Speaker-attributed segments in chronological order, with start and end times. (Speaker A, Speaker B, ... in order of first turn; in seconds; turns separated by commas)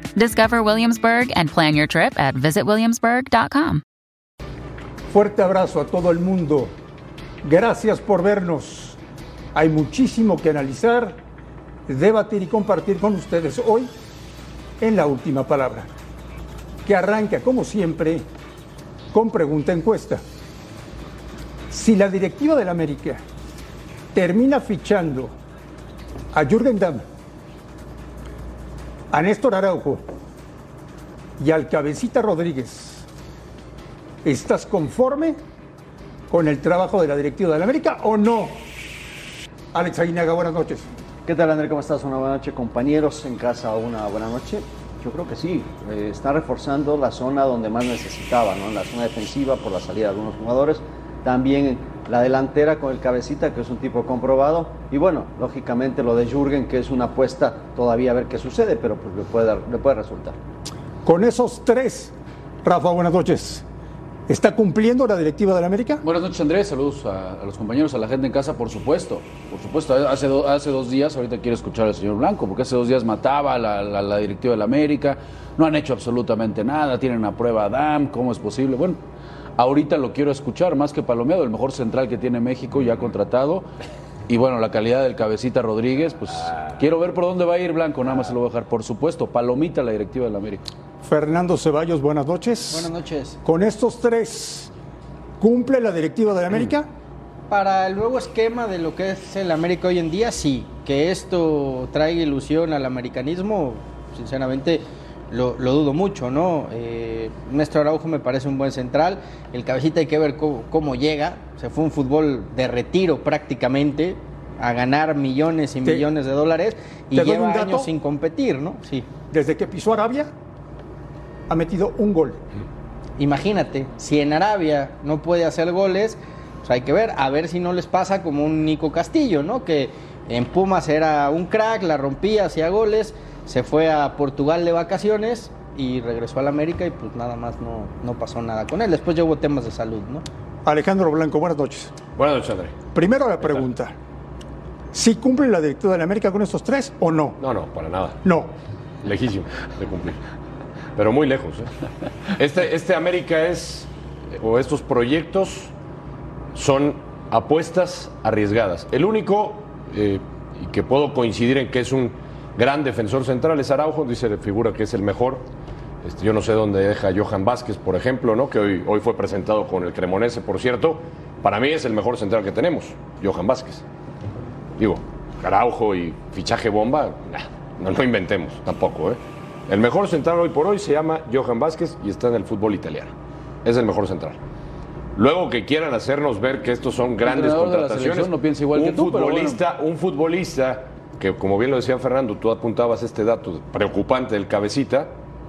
Speaker A: 0.2-3.8, Speaker B: 5.1-6.7, Speaker B: 7.4-9.0, Speaker B: 9.5-11.2, Speaker B: 11.9-13.9, Speaker B: 14.8-15.9, Speaker B: 16.8-18.3, Speaker B: 19.1-20.2, Speaker B: 21.7-23.2, Speaker B: 24.1-25.3, Speaker B: 26.3-27.1, Speaker B: 29.1-30.0, Speaker B: 31.4-33.0, Speaker B: 34.2-35.4, Speaker B: 36.3-38.7, Speaker B: 39.7-40.9, Speaker C: 41.2-60.4, Speaker B: 61.0-63.6, Speaker B: 64.3-66.0, Speaker D: 66.0-79.0, Speaker D: 79.6-83.7, Speaker D: 84.3-90.6, Speaker B: 91.0-92.9, Speaker E: 92.7-93.4, Speaker B: 93.4-94.7, Speaker B: 95.4-96.9, Speaker E: 97.5-119.1, Speaker B: 115.8-116.1, Speaker B: 117.1-117.9, Speaker B: 119.3-120.3, Speaker B: 121.5-122.4, Speaker E: 123.2-140.2, Speaker B: 140.7-141.9, Speaker F: 142.2-142.8, Speaker B: 142.9-144.0, Speaker B: 144.9-147.4, Speaker F: 147.4-148.2, Speaker B: 148.2-148.5, Speaker F: 149.0-150.2, Speaker F: 151.0-151.7, Speaker F: 152.3-155.7, Speaker F: 156.5-165.5, Speaker F: 166.0-173.8, Speaker F: 174.8-183.1, Speaker F: 183.7-184.4, Speaker F: 185.2-195.1, Speaker D: 187.2-189.6